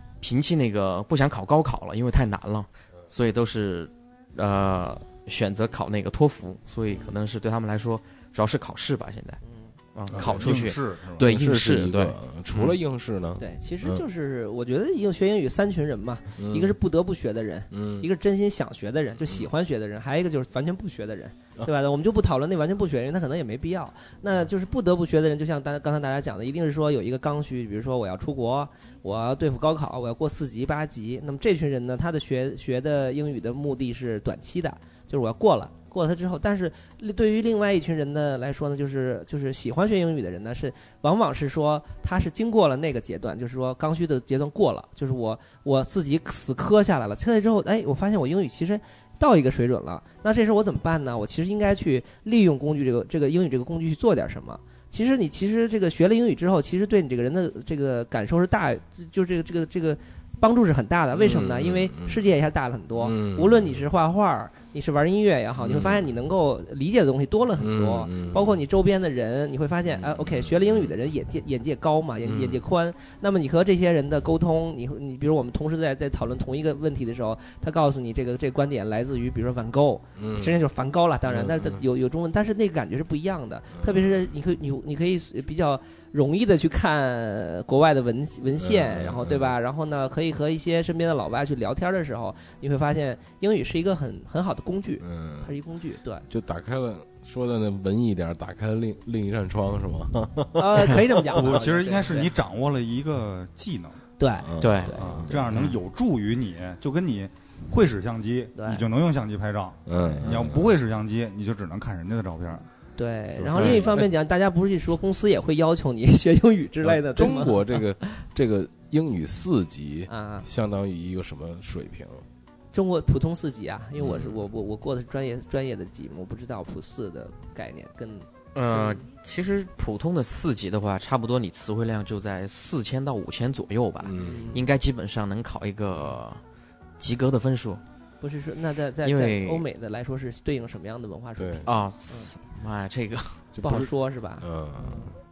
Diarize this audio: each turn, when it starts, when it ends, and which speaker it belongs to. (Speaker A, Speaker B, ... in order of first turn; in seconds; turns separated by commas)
Speaker A: 0.2-9.4, Speaker B: 6.9-7.1, Speaker B: 9.4-9.7, Speaker A: 9.9-12.2, Speaker C: 10.1-11.2, Speaker D: 10.2-10.6, Speaker D: 11.2-14.0, Speaker C: 12.5-12.8, Speaker B: 13.4-96.2, Speaker D: 16.4-16.8, Speaker D: 17.7-18.1, Speaker D: 61.1-62.2, Speaker D: 63.0-63.9, Speaker D: 65.6-66.1, Speaker D: 67.6-68.6, Speaker D: 69.9-71.0, Speaker D: 72.2-72.7, Speaker D: 80.2-80.6, Speaker D: 81.2-81.8, Speaker D: 83.7-84.3, Speaker D: 88.5-89.5, Speaker D: 95.0-95.5, Speaker D: 96.3-101.5, Speaker B: 100.5-102.3, Speaker C: 101.3-104.0, Speaker B: 104.2-105.7, Speaker D: 104.4-105.7, Speaker A: 104.6-105.2, Speaker C: 105.0-112.7, Speaker B: 108.5-108.8, Speaker D: 109.8-110.7, Speaker B: 110.0-110.3, Speaker B: 113.0-118.1, Speaker D: 113.4-114.1, Speaker C: 113.5-113.8, Speaker D: 116.8-122.2, Speaker B: 120.1-120.5, Speaker B: 122.7-129.0, Speaker D: 124.0-124.4, Speaker A: 128.5-136.4, Speaker D: 134.0-134.6, Speaker B: 134.2-134.6, Speaker A: 137.0-137.8, Speaker B: 138.2-142.3, Speaker A: 139.0-139.6, Speaker D: 141.4-141.7, Speaker A: 141.6-143.5, Speaker D: 143.5-145.2, Speaker B: 143.6-145.1